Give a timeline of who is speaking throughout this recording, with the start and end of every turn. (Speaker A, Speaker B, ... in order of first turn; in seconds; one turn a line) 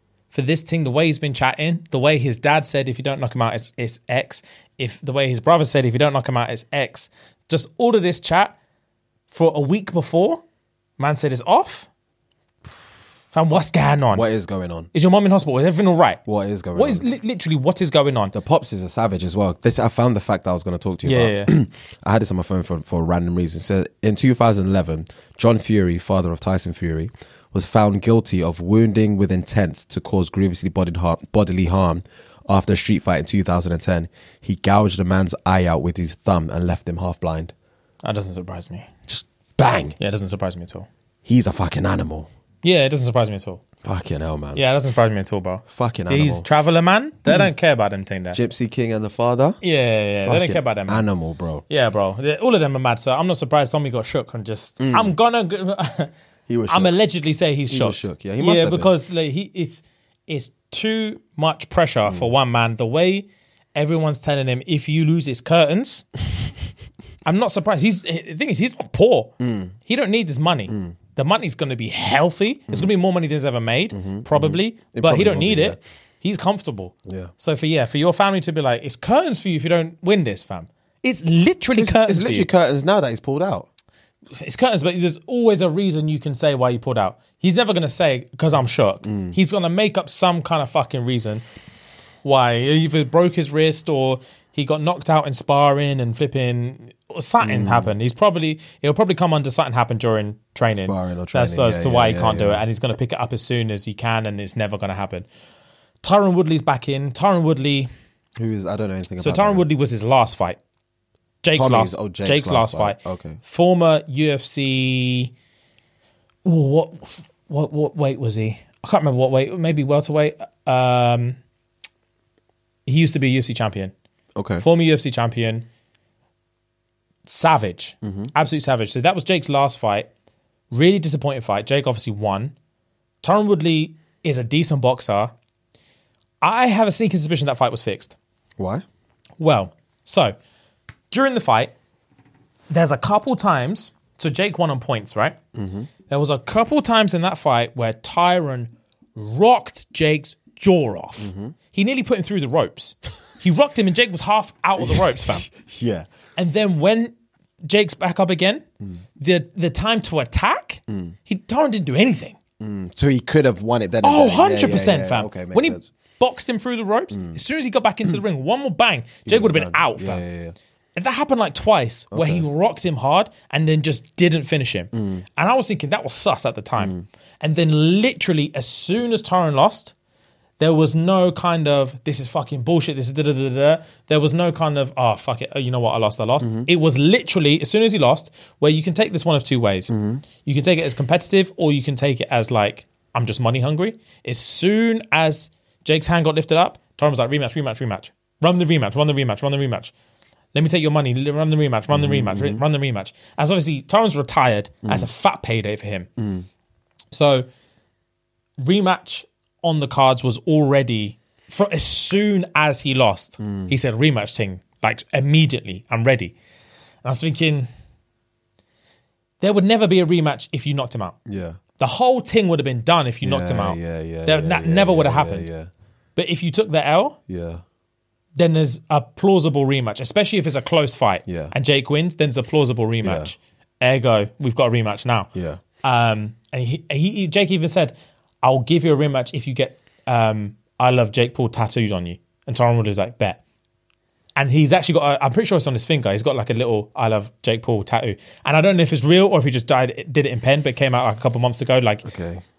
Speaker A: 0.3-8.6
Speaker A: 9.3-10.4
Speaker A: 11.0-11.9
Speaker A: 13.3-14.2
Speaker B: 14.1-14.9
Speaker A: 14.9-16.2
Speaker B: 16.3-17.1
Speaker A: 16.8-18.3
Speaker B: 18.3-37.5
Speaker A: 21.0-21.5
Speaker A: 38.0-38.9
Speaker B: 39.1-40.0
Speaker A: 40.0-40.9
Speaker B: 41.2-42.3
Speaker A: 42.6-43.6
Speaker B: 43.8-44.6
Speaker A: 44.6-48.4
Speaker B: 45.7-46.5
Speaker B: 48.3-49.6
Speaker A: 49.6-51.0
Speaker B: 50.2-51.6
Speaker A: 51.7-56.1
Speaker B: 54.8-55.1
Speaker B: 56.5-56.9
Speaker A: 56.7-66.1
Speaker B: 57.7-58.9
Speaker A: 67.2-69.3
Speaker B: 69.4-69.7
Speaker A: 69.9-82.5
Speaker B: 70.7-71.0
Speaker B: 73.9-75.8
Speaker B: 77.1-77.3
Speaker B: 81.7-83.7
Speaker A: 84.3-91.4
Speaker B: 89.0-89.4
Speaker A: 92.2-105.3
Speaker B: 97.4-97.9
Speaker B: 100.7-102.6
Speaker A: 106.0-107.9
Speaker B: 108.4-109.7
Speaker A: 109.2-110.6
Speaker A: 111.4-115.3
Speaker B: 111.5-113.4
Speaker A: 116.5-121.4
Speaker A: 122.9-123.9
Speaker B: 124.4-124.7
Speaker A: 124.6-125.7
Speaker A: 127.2-130.1
Speaker B: 128.0-128.3
Speaker A: 130.7-132.6
Speaker A: 133.2-135.3
Speaker A: 136.4-138.2
Speaker B: 138.6-138.8
Speaker A: 139.4-140.3
Speaker A: 141.1-141.7
Speaker A: 142.7-145.4
Speaker B: 145.6-145.9
Speaker A: 146.1-155.5
Speaker B: 151.2-151.6
Speaker B: 154.8-156.1
Speaker A: 156.4-157.2
Speaker A: 157.7-158.6
Speaker A: 159.2-162.4
Speaker B: 160.9-161.2
Speaker B: 162.6-165.9
Speaker A: 164.0-170.2
Speaker B: 167.1-167.4
Speaker B: 169.3-170.6
Speaker A: 171.0-179.9
Speaker B: 172.1-172.5
Speaker B: 174.9-175.2
Speaker B: 176.8-177.1
Speaker A: 180.6-199.9
Speaker B: 186.4-186.7
Speaker B: 189.9-190.2
Speaker A: 200.5-206.1
Speaker B: 201.9-202.6
Speaker B: 204.8-205.1
Speaker B: 206.2-206.5
Speaker A: 207.1-207.5
Speaker A: 208.6-216.3
Speaker B: 213.4-213.7
Speaker A: 217.0-217.7
Speaker A: 219.4-221.2
Speaker B: 221.3-221.6
Speaker A: 221.8-225.5
Speaker B: 223.2-225.7
Speaker A: 226.2-227.2
Speaker B: 227.3-227.6
Speaker A: 228.4-235.3
Speaker B: 231.3-231.5
Speaker B: 233.0-233.3
Speaker B: 235.3-235.6
Speaker A: 235.8-243.4
Speaker A: 244.4-252.1
Speaker B: 252.1-252.4